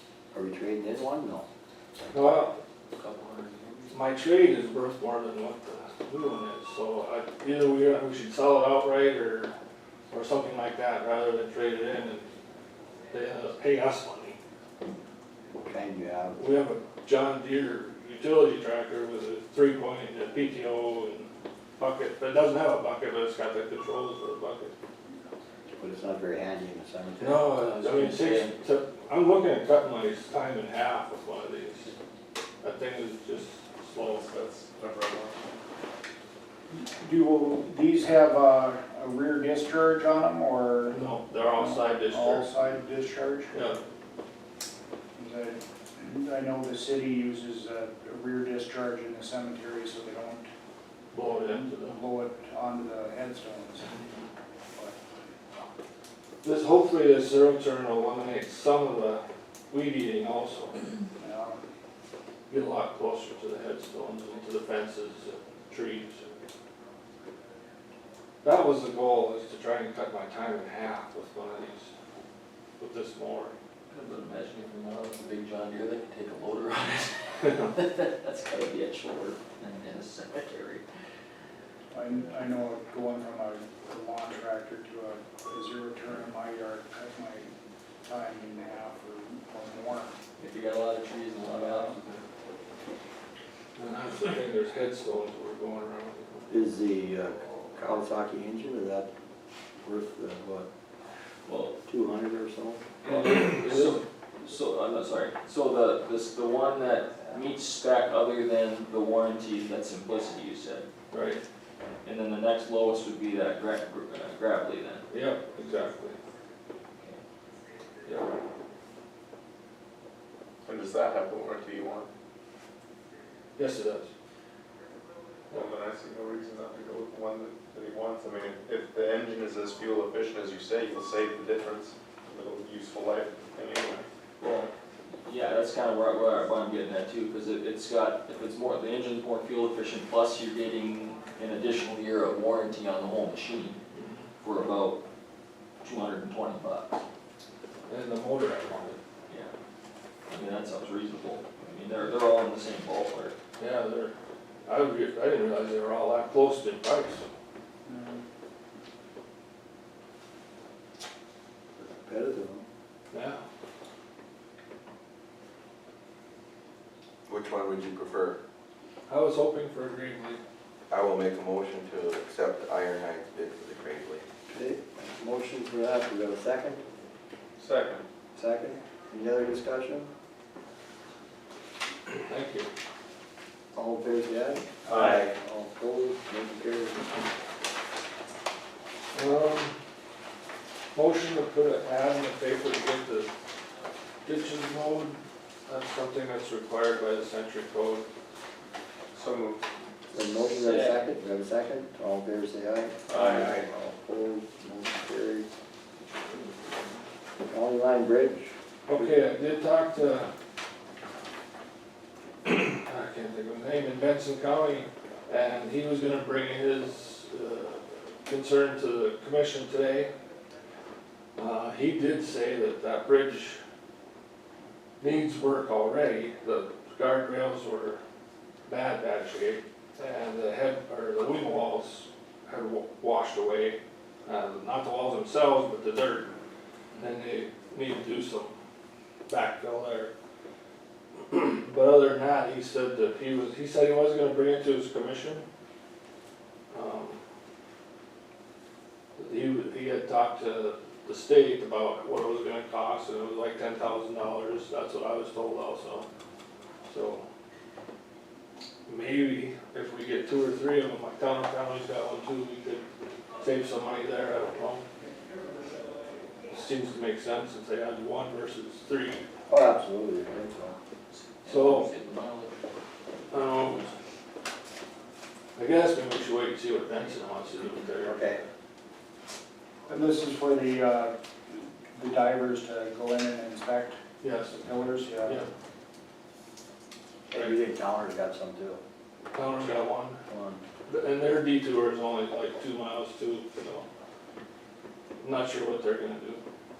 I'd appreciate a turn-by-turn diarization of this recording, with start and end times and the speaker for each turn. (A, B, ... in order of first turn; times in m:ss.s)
0:00.3-0:01.5 A
0:02.1-0:02.6 B
0:03.0-0:03.9 C
0:03.9-0:09.6 B
0:10.1-0:12.3 B
0:13.1-0:14.4 B
0:15.6-0:16.4 A
0:16.4-0:24.7 B
0:25.8-0:27.5 A
0:27.2-0:31.9 B
0:27.6-0:28.6 C
0:32.6-0:34.3 B
0:34.0-0:35.4 D
0:36.7-0:43.7 E
0:40.9-0:42.5 B
0:43.5-0:43.8 B
0:45.2-0:50.5 E
0:51.1-0:52.0 B
0:51.4-0:54.0 E
0:54.7-0:55.0 E
0:56.4-1:00.8 B
1:01.2-1:01.7 E
1:02.5-1:06.2 B
1:08.4-1:11.9 B
1:12.8-1:13.6 B
1:13.9-1:20.8 C
1:21.9-1:27.5 E
1:28.0-1:30.2 E
1:30.4-1:32.2 C
1:33.8-1:36.5 B
1:36.5-1:39.1 A
1:39.8-1:40.7 A
1:41.5-1:41.8 C
1:41.9-1:42.9 A
1:43.0-1:50.9 C
1:43.1-1:44.0 B
1:51.1-1:51.4 B
1:52.0-1:55.1 C
1:55.1-1:56.2 B
1:58.0-1:58.4 B
2:00.6-2:02.1 D
2:03.6-2:04.1 B
2:05.5-2:14.1 D
2:14.4-2:14.7 C
2:15.2-2:23.8 C
2:23.9-2:24.3 B
2:24.4-2:25.0 C
2:25.8-2:27.0 C
2:27.9-2:29.0 B
2:29.3-2:29.5 C
2:30.3-2:33.4 C
2:33.6-2:34.1 B
2:34.7-2:37.3 B
2:37.9-2:38.2 E
2:41.8-2:42.7 A
2:43.1-2:43.4 B
2:47.3-2:48.4 F
2:49.1-2:50.4 B
2:50.9-2:54.3 F
2:54.5-2:56.8 A
2:57.6-2:58.1 D
2:58.4-3:00.1 A
3:02.1-3:02.7 B
3:03.7-3:07.2 A
3:04.9-3:05.3 D
3:09.1-3:09.8 B
3:10.9-3:13.3 B
3:14.2-3:18.1 B
3:19.1-3:19.6 D
3:20.1-3:25.5 A
3:20.6-3:21.0 C
3:23.1-3:23.6 D
3:23.2-3:23.6 C
3:27.4-3:29.2 A
3:28.9-3:30.3 B
3:32.4-3:40.1 B
3:41.4-3:43.6 B
3:45.0-3:48.0 B
3:48.7-3:56.3 B
3:57.0-3:58.5 B
3:59.3-4:00.1 B
4:01.3-4:05.4 B
4:06.7-4:07.2 B
4:09.2-4:16.1 B
4:16.9-4:17.3 B
4:18.9-4:22.8 B
4:23.4-4:24.8 B
4:26.5-4:29.2 B
4:29.5-4:30.8 A
4:31.1-4:32.5 C
4:31.5-4:31.9 B
4:33.3-4:33.9 B
4:35.6-4:38.5 B
4:38.0-4:38.4 A
4:39.9-4:44.0 E
4:44.2-4:44.6 B
4:44.5-4:45.5 E
4:47.3-4:48.8 A
4:49.3-4:50.2 B
4:50.3-4:50.6 A
4:50.9-4:53.9 B
4:55.2-4:56.4 B